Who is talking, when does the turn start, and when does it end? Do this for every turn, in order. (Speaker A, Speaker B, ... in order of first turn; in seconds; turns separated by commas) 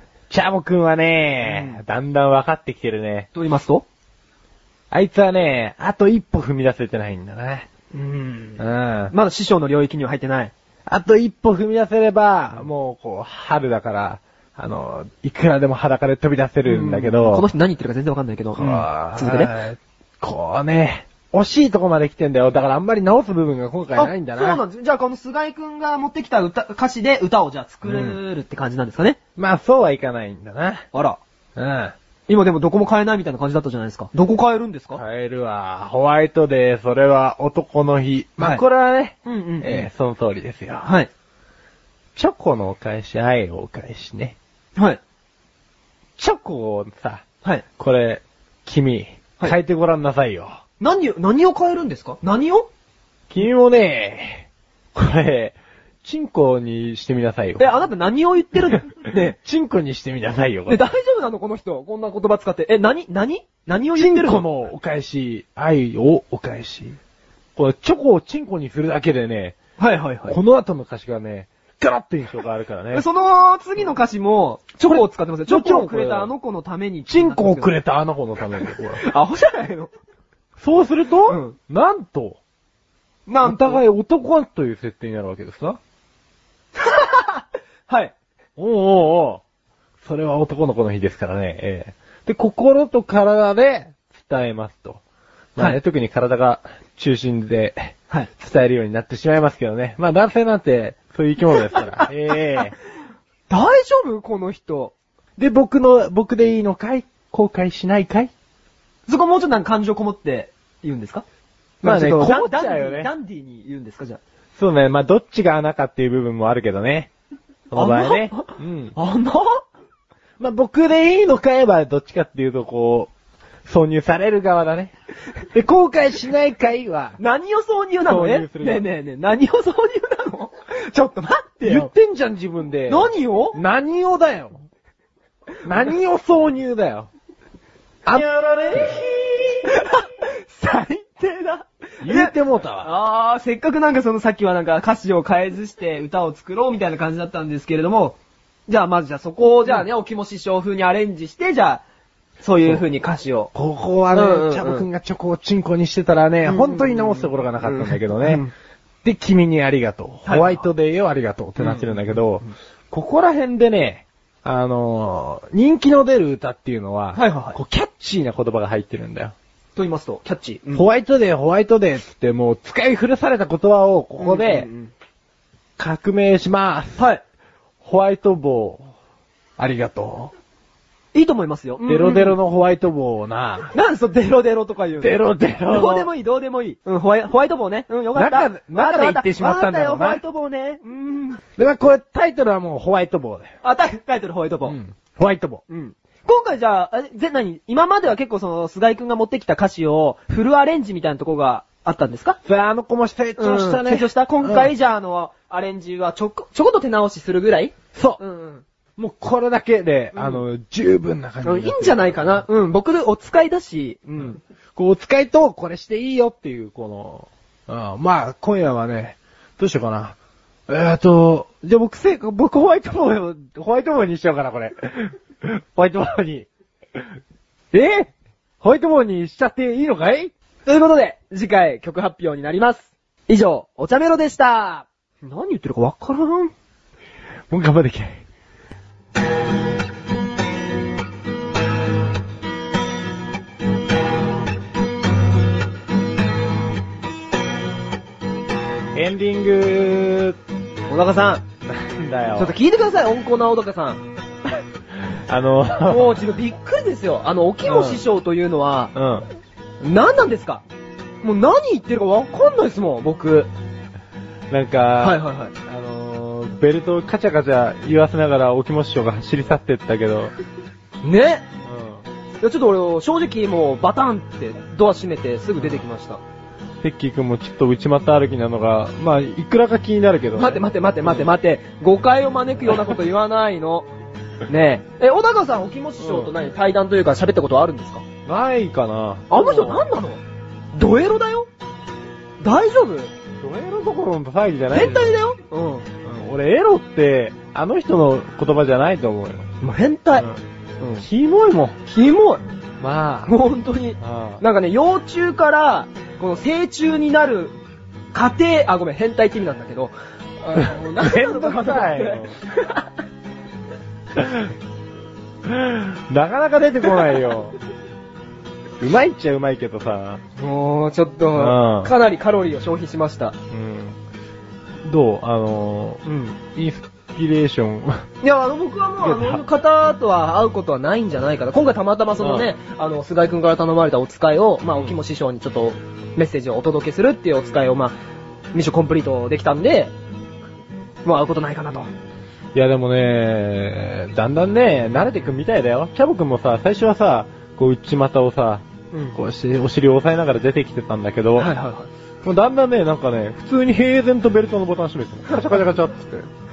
Speaker A: 0.3-3.3, Speaker B: 1.4-1.8, Speaker B: 3.3-3.8, Speaker A: 4.9-7.7, Speaker B: 7.9-10.5, Speaker A: 8.6-9.1, Speaker A: 10.9-17.4, Speaker B: 16.6-19.5, Speaker A: 18.6-24.6, Speaker B: 23.9-29.2, Speaker A: 27.8-28.2, Speaker A: 29.4-30.9, Speaker B: 30.9-31.2, Speaker A: 31.6-31.9, Speaker B: 32.3-35.0, Speaker A: 35.0-40.9, Speaker B: 38.4-38.6, Speaker B: 39.2-39.9, Speaker B: 40.8-41.1, Speaker A: 42.1-44.4, Speaker A: 46.2-47.2, Speaker A: 47.8-50.6, Speaker B: 50.8-52.7, Speaker A: 53.3-57.7, Speaker B: 57.6-59.4, Speaker A: 58.7-60.8, Speaker B: 60.7-64.5, Speaker A: 64.0-67.0, Speaker A: 67.5-69.5, Speaker B: 69.8-70.3, Speaker A: 70.3-73.0, Speaker B: 72.9-77.7, Speaker A: 74.8-76.3, Speaker A: 77.1-79.0, Speaker B: 78.5-79.9, Speaker A: 80.6-82.4, Speaker B: 81.3-81.5, Speaker B: 83.3-83.8, Speaker A: 83.4-85.8, Speaker B: 86.8-88.1, Speaker A: 88.6-89.4, Speaker A: 90.0-95.0, Speaker A: 95.5-102.7, Speaker B: 103.5-104.9, Speaker A: 105.4-108.3, Speaker B: 109.1-111.2, Speaker B: 111.8-114.2, Speaker A: 111.8-113.1, Speaker A: 114.6-117.1, Speaker A: 117.7-118.9, Speaker B: 117.7-119.6, Speaker A: 120.4-123.1, Speaker A: 123.7-124.9, Speaker A: 125.5-127.2, Speaker B: 127.2-131.9, Speaker A: 128.1-128.8, Speaker A: 131.6-134.6, Speaker B: 132.9-133.6, Speaker A: 135.6-137.1, Speaker A: 138.1-139.0, Speaker B: 138.1-151.8, Speaker A: 142.0-142.9, Speaker B: 152.4-153.5, Speaker A: 153.5-158.4, Speaker B: 154.1-154.9, Speaker B: 156.4-158.5, Speaker A: 159.0-169.3, Speaker B: 160.2-160.7, Speaker B: 161.6-162.5, Speaker B: 167.1-167.6, Speaker B: 169.8-170.9, Speaker A: 170.7-174.7, Speaker B: 174.2-174.9, Speaker A: 175.8-177.0, Speaker B: 177.0-177.2, Speaker A: 177.8-178.9, Speaker A: 179.6-180.3, Speaker B: 181.1-182.3, Speaker A: 181.8-183.7, Speaker B: 183.7-185.2, Speaker A: 185.0-186.1, Speaker B: 185.7-191.4, Speaker A: 188.1-190.2, Speaker A: 191.6-193.5, Speaker B: 193.6-194.8, Speaker A: 194.6-195.6, Speaker B: 195.7-202.4, Speaker A: 202.4-204.7, Speaker B: 203.4-208.6, Speaker A: 207.9-208.2, Speaker A: 209.0-212.4, Speaker B: 210.1-210.4, Speaker B: 211.4-214.4, Speaker A: 214.2-220.2, Speaker A: 220.7-226.5, Speaker A: 227.7-230.3, Speaker B: 230.7-236.5, Speaker A: 237.5-238.2, Speaker A: 248.9-250.4, Speaker B: 250.9-251.4, Speaker A: 251.6-252.6, Speaker B: 252.3-254.0, Speaker A: 255.0-256.2, Speaker B: 255.8-258.9, Speaker A: 257.6-258.0, Speaker A: 258.9-259.2, Speaker B: 259.8-260.6, Speaker B: 261.2-263.5, Speaker A: 264.5-270.3, Speaker B: 265.0-265.5, Speaker B: 271.0-271.4, Speaker A: 271.6-272.0, Speaker B: 272.4-276.2, Speaker A: 276.8-281.3, Speaker B: 280.3-283.9, Speaker B: 284.5-288.0, Speaker A: 286.0-286.3, Speaker A: 288.2-289.8, Speaker B: 289.3-290.2, Speaker B: 290.7-291.5, Speaker B: 292.4-293.1, Speaker A: 293.4-295.1, Speaker B: 294.7-295.9, Speaker A: 296.0-299.5, Speaker B: 299.6-300.2, Speaker A: 300.1-300.4, Speaker B: 300.8-301.0, Speaker A: 301.0-301.8, Speaker B: 301.9-302.4, Speaker A: 302.8-303.3, Speaker B: 303.2-307.5, Speaker A: 304.0-304.4, Speaker B: 308.1-312.9, Speaker A: 310.6-312.3, Speaker A: 314.1-314.5, Speaker A: 315.4-317.6, Speaker A: 318.8-320.2, Speaker B: 320.4-323.4, Speaker A: 321.4-321.9, Speaker A: 323.5-324.0, Speaker A: 324.8-328.1, Speaker B: 326.1-326.4, Speaker B: 328.2-337.9, Speaker A: 329.0-329.4, Speaker A: 332.2-332.5, Speaker A: 334.6-334.9, Speaker B: 338.5-339.9, Speaker B: 341.0-341.9, Speaker A: 342.5-351.5, Speaker B: 348.9-349.2, Speaker B: 351.4-351.9, Speaker A: 352.2-356.3, Speaker B: 355.3-355.6